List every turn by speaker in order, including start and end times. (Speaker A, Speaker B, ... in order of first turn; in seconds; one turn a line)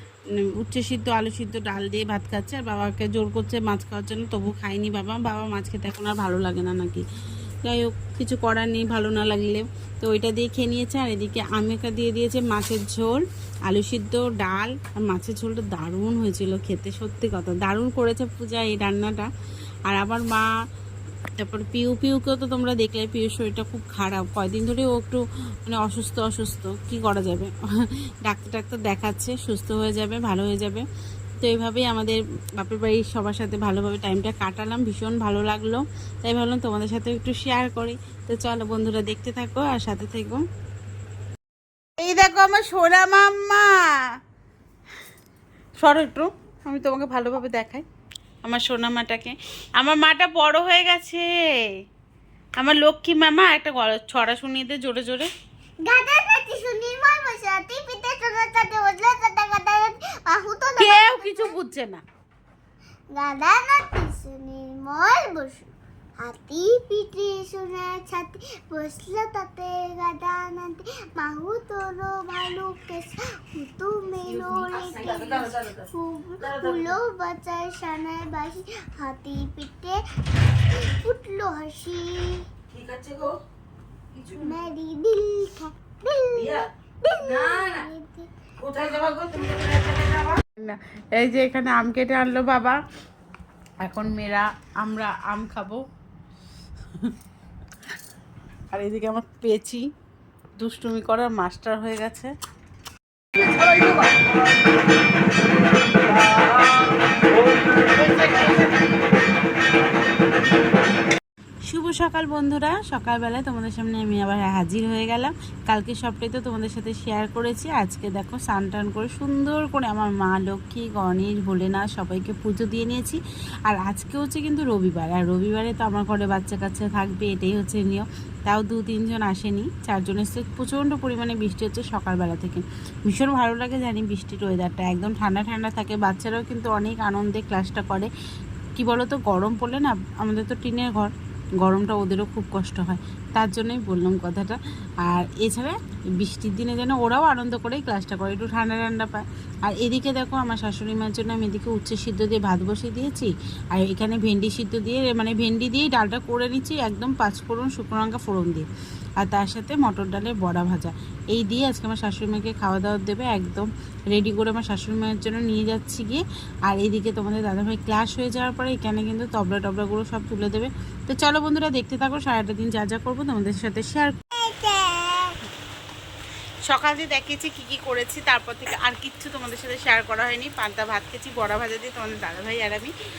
Speaker A: 0.4-7.0
Speaker A: 7.6-19.3
Speaker A: 19.9-20.5
Speaker A: 21.4-30.9
Speaker A: 31.4-40.4
Speaker A: 42.0-43.7
Speaker A: 45.8-47.9
Speaker A: 48.4-51.3
Speaker A: 52.6-55.3
Speaker B: 55.9-61.6
Speaker A: 60.8-62.0
Speaker B: 63.1-82.5
Speaker C: 74.2-77.0
Speaker C: 82.7-83.4
Speaker C: 84.2-84.6
Speaker B: 84.4-88.3
Speaker C: 86.3-86.7
Speaker C: 87.2-87.8
Speaker C: 88.6-90.4
Speaker A: 90.6-92.8
Speaker A: 93.8-95.8
Speaker A: 98.7-99.9
Speaker A: 100.6-102.3
Speaker C: 103.4-104.0
Speaker C: 108.0-108.6
Speaker A: 111.7-138.1
Speaker A: 138.8-158.7
Speaker A: 159.2-175.3
Speaker A: 176.7-182.9